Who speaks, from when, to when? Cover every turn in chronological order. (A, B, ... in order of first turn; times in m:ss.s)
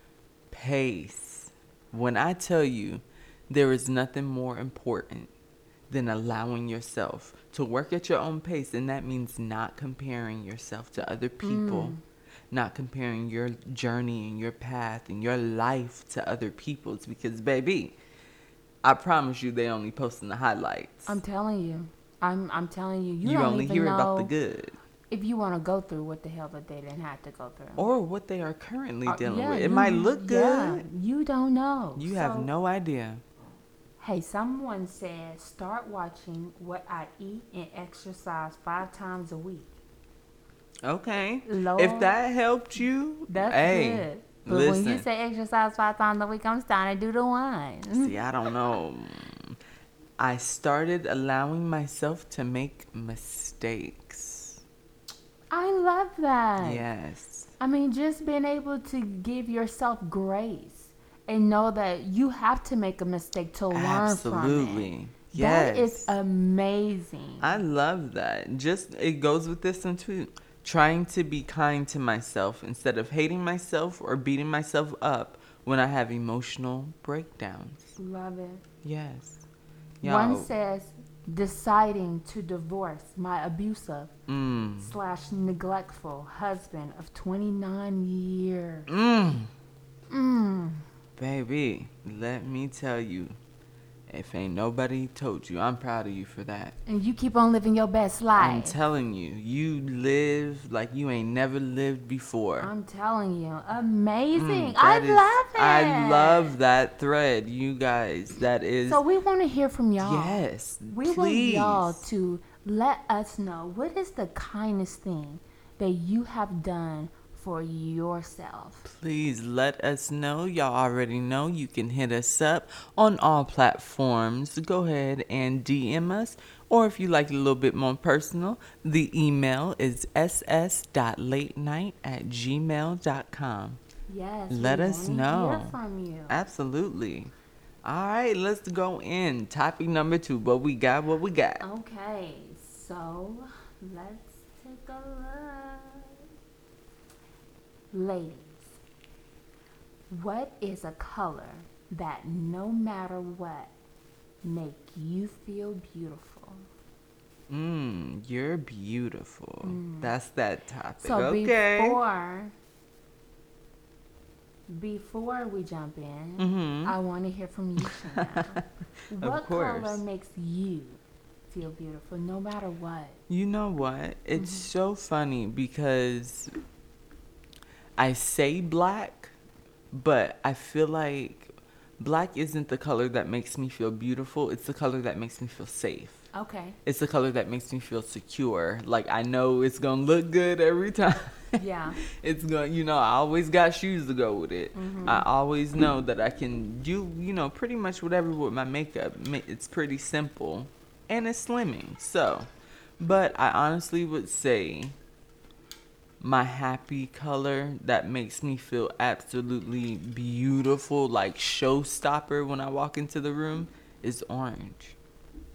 0:00.5-0:05.3 A
0:05.9-0:12.0 A
0:11.4-0:12.0 B
0:12.5-0:18.0 A
0:18.8-0:21.1 A
0:21.1-0:24.3 B
0:23.2-0:24.8 A
0:25.1-0:27.8 B
0:27.8-0:30.8 A
0:29.1-0:32.5 B
0:32.0-0:33.2 A
0:34.0-0:39.8 B
0:40.8-0:45.1 A
0:41.5-0:42.1 B
0:43.3-0:48.2 B
0:47.9-0:49.6 A
0:50.2-0:54.6 A
0:55.5-0:56.8 B
0:56.6-0:57.5 A
0:57.6-1:07.6 B
1:03.7-1:06.1 A
1:07.4-1:18.0 A
1:18.0-1:18.6 B
1:18.8-1:19.4 A
1:20.0-1:20.5 A
1:20.0-1:24.1 B
1:24.3-1:24.9 A
1:24.8-1:28.9 B
1:28.9-1:29.5 A
1:30.1-1:30.8 B
1:31.2-1:33.4 A
1:34.1-1:36.8 A
1:36.9-1:38.8 B
1:38.4-1:42.7 A
1:42.6-1:46.5 B
1:44.4-1:49.0 A
1:48.9-1:58.9 B
1:50.0-1:52.0 A
1:58.8-2:13.8 A
2:14.1-2:16.4 B
2:14.5-2:15.8 A
2:16.3-2:17.3 A
2:17.8-2:21.6 A
2:21.6-2:26.2 B
2:27.9-2:28.8 B
2:30.1-2:33.7 B
2:34.4-2:36.7 B
2:37.5-2:42.0 A
2:39.6-2:40.1 B
2:41.0-2:42.5 B
2:44.7-2:53.2 B
2:46.4-2:47.0 A
2:48.2-2:48.6 A
2:49.2-2:50.0 A
2:53.3-2:56.5 A
2:54.4-2:54.7 B
2:58.0-2:59.3 A
2:59.9-3:06.2 A
3:06.3-3:06.8 B
3:06.8-3:11.6 A
3:11.6-3:12.0 B
3:12.2-3:25.0 A
3:14.7-3:15.3 B
3:26.2-3:35.0 A